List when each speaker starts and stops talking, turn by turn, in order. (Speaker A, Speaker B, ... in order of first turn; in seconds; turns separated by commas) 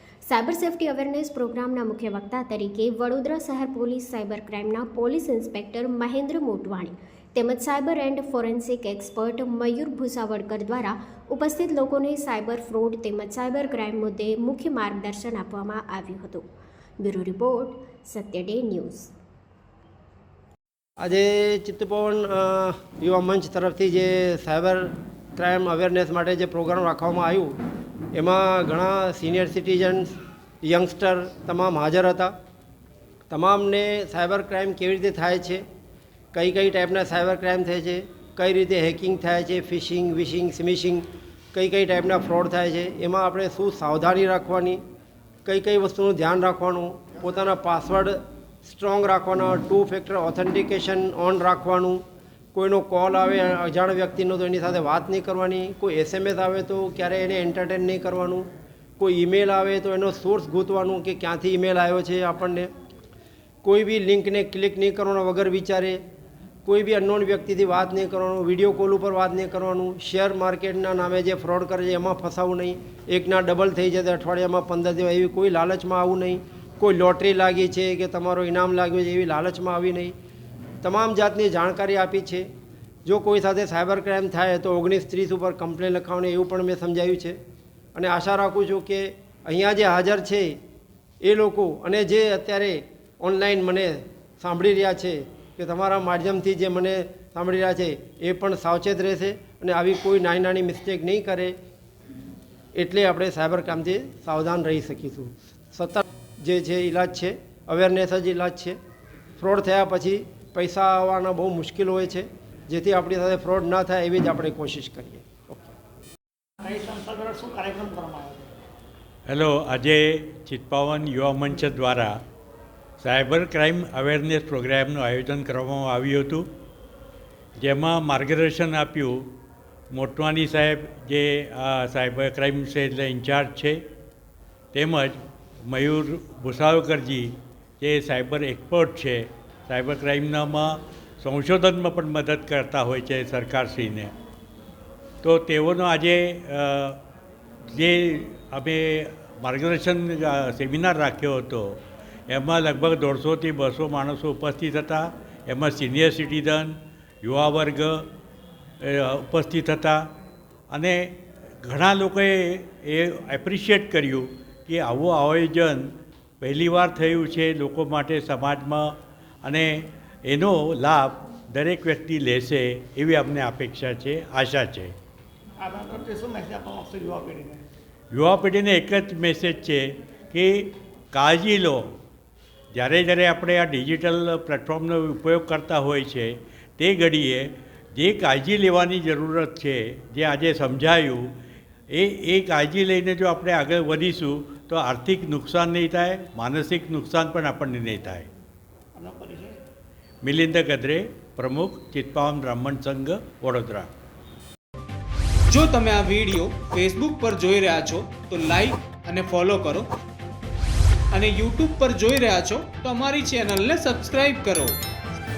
Speaker A: 0.3-16.4, Speaker A: 17.0-19.1, Speaker B: 21.0-27.5, Speaker B: 28.1-32.3, Speaker B: 33.3-35.6, Speaker B: 36.3-44.8, Speaker B: 45.5-52.0, Speaker B: 52.5-58.5, Speaker B: 59.0-62.7, Speaker B: 63.6-66.0, Speaker B: 66.7-80.1, Speaker B: 80.8-82.5, Speaker B: 83.0-87.4, Speaker B: 88.0-90.6, Speaker B: 91.2-101.5, Speaker B: 102.7-108.8, Speaker B: 109.4-115.6, Speaker C: 116.6-118.5, Speaker D: 119.3-122.2, Speaker D: 123.0-126.5, Speaker D: 127.6-129.2, Speaker D: 129.9-133.8, Speaker D: 134.7-144.1, Speaker D: 145.2-147.0, Speaker D: 147.7-158.1, Speaker D: 158.8-160.0, Speaker D: 160.7-161.1, Speaker D: 161.6-165.9, Speaker D: 166.4-168.9, Speaker D: 169.4-174.9, Speaker C: 175.6-177.6, Speaker D: 178.1-181.8, Speaker D: 182.7-191.2, Speaker D: 191.9-198.3, Speaker C: 198.9-199.6, Speaker D: 200.2-203.9, Speaker E: 205.5-209.9, Speaker E: 211.1-214.7